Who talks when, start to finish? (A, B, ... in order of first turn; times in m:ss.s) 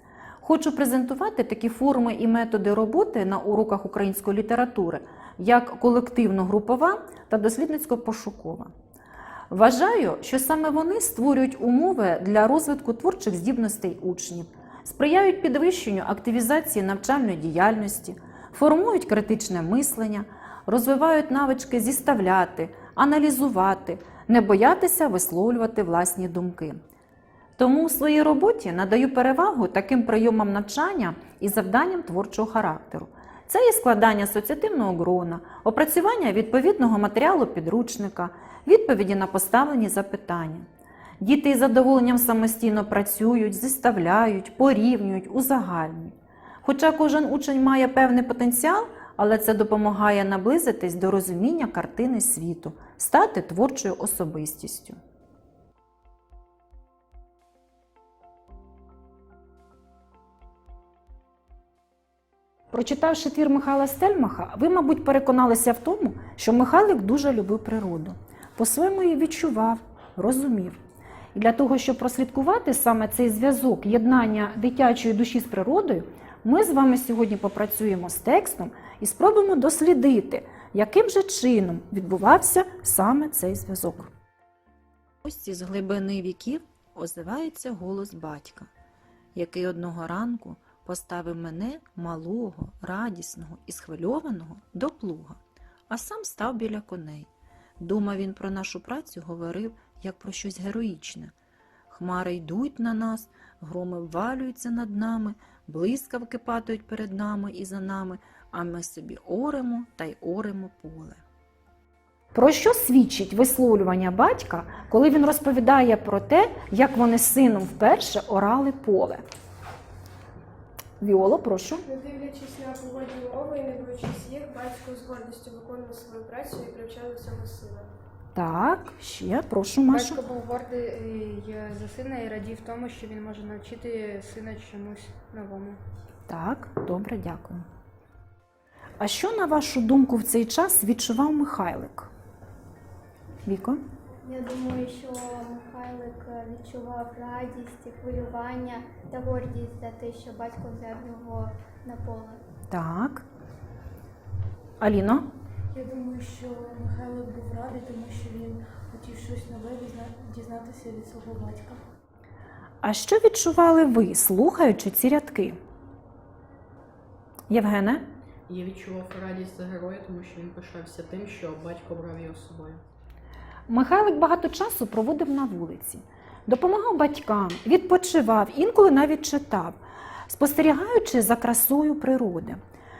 0:00.4-0:08.7 A
0:09.5-0:26.8 A
0:27.6-0:40.6 A
0:41.2-0:55.0 A
1:02.7-1:10.8 A
1:11.3-1:24.1 A
1:25.2-1:28.7 A
1:29.3-1:35.4 A
1:35.9-1:37.3 A
1:37.8-1:41.3 A
1:41.9-1:51.2 A
1:52.3-1:59.2 A
2:01.0-2:01.8 A
2:01.8-2:07.9 B
2:08.3-2:10.2 A
2:09.9-2:15.8 C
2:16.3-2:17.6 A
2:19.0-2:22.1 A
2:23.4-2:23.8 A
2:24.2-2:32.4 D
2:32.7-2:33.2 A
2:34.8-2:35.3 A
2:35.7-2:41.8 E
2:42.8-2:45.6 A
2:47.5-2:48.0 A
2:48.5-2:52.8 F
2:53.7-3:02.6 A